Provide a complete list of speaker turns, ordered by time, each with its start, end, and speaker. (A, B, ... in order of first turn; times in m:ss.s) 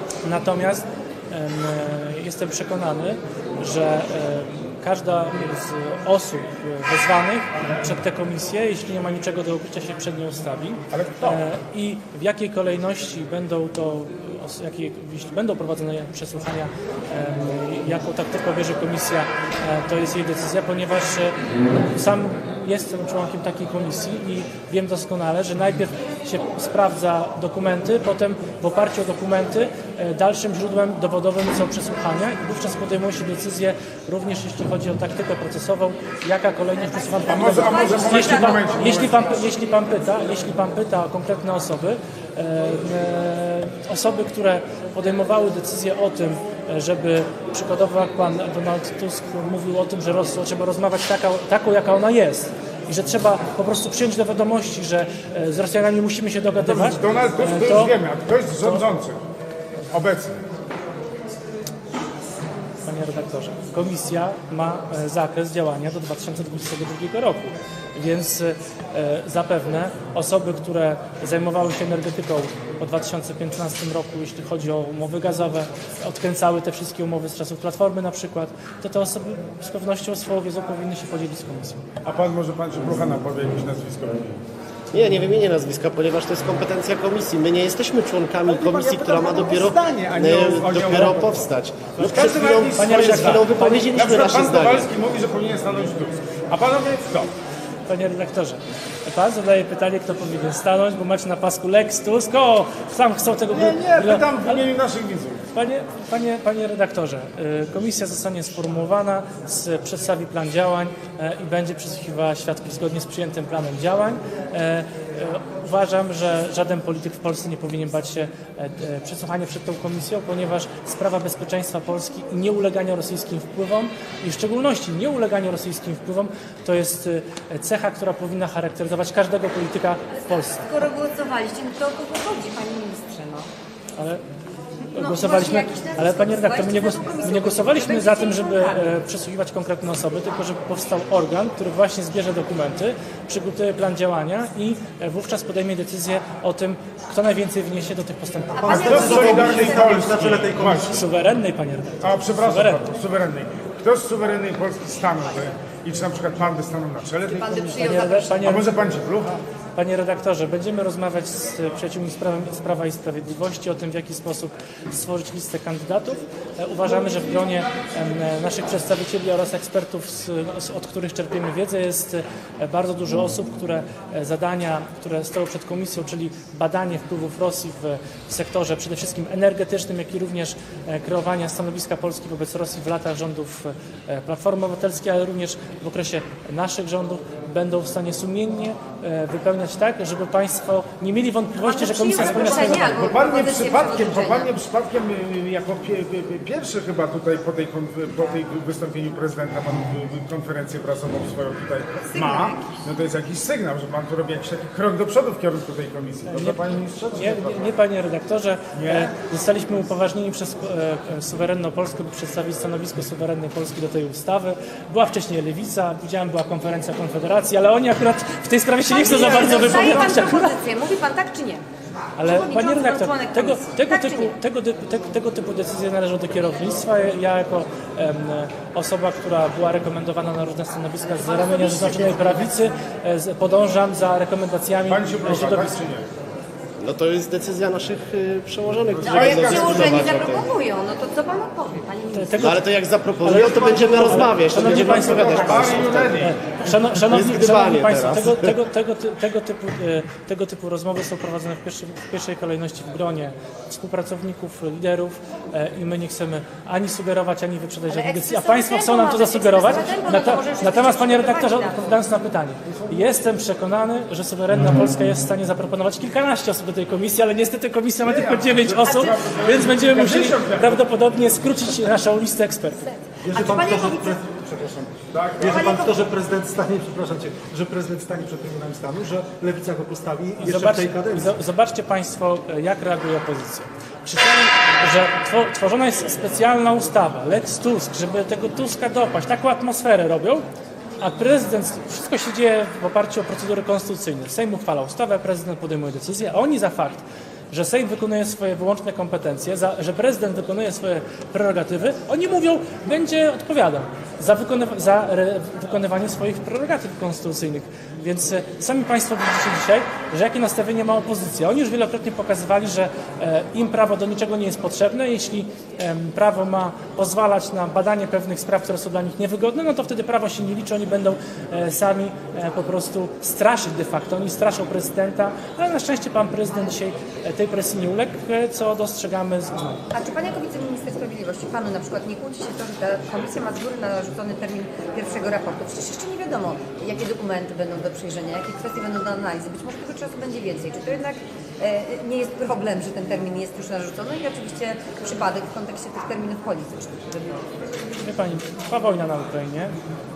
0:00.2-0:57.9 A
0:10.9-0:11.4 B
0:36.9-0:39.3 C
0:37.3-0:39.2 B
0:56.6-0:59.2 B
0:59.9-1:00.4 B
1:02.8-1:21.8 A
1:22.0-1:24.4 B
1:24.9-1:34.9 D
1:28.4-1:37.3 B
1:32.8-1:33.8 A
1:37.9-1:44.6 A
1:43.5-1:45.5 B
1:45.5-2:10.6 A
2:10.5-2:13.5 C
2:14.0-2:14.2 A
2:14.9-2:18.9 C
2:14.9-2:29.3 A
2:28.6-2:30.0 C
2:28.6-2:31.0 E
2:28.7-2:31.0 B
2:30.8-2:32.8 A
2:32.0-2:37.7 B
2:37.2-2:38.6 C
2:37.6-2:38.8 A
2:38.4-2:39.4 B
2:39.8-3:13.0 A
3:11.6-3:14.5 C
3:12.2-3:27.6 B
3:21.9-3:22.8 C
3:26.3-3:26.6 A
3:27.1-3:40.5 A
3:28.7-3:29.1 B
3:38.9-3:41.6 C
3:42.2-3:55.8 A
3:42.2-3:44.4 C
3:51.1-3:52.4 C
3:54.8-3:56.1 B
3:56.8-4:00.5 D
3:58.9-4:00.3 B
3:59.0-4:02.6 C
4:02.1-4:02.6 A
4:02.4-4:06.2 D
4:03.2-4:32.9 A
4:03.4-4:06.4 B
4:05.5-4:06.1 C
4:06.9-4:08.6 D
4:17.9-4:22.1 C
4:28.0-4:30.9 B
4:32.9-4:34.2 C
4:33.2-4:41.3 E
4:35.1-4:35.7 B
4:35.4-4:36.0 C
4:40.4-4:50.4 A
4:51.0-5:29.8 A
5:29.9-5:47.5 C
5:48.0-5:49.7 A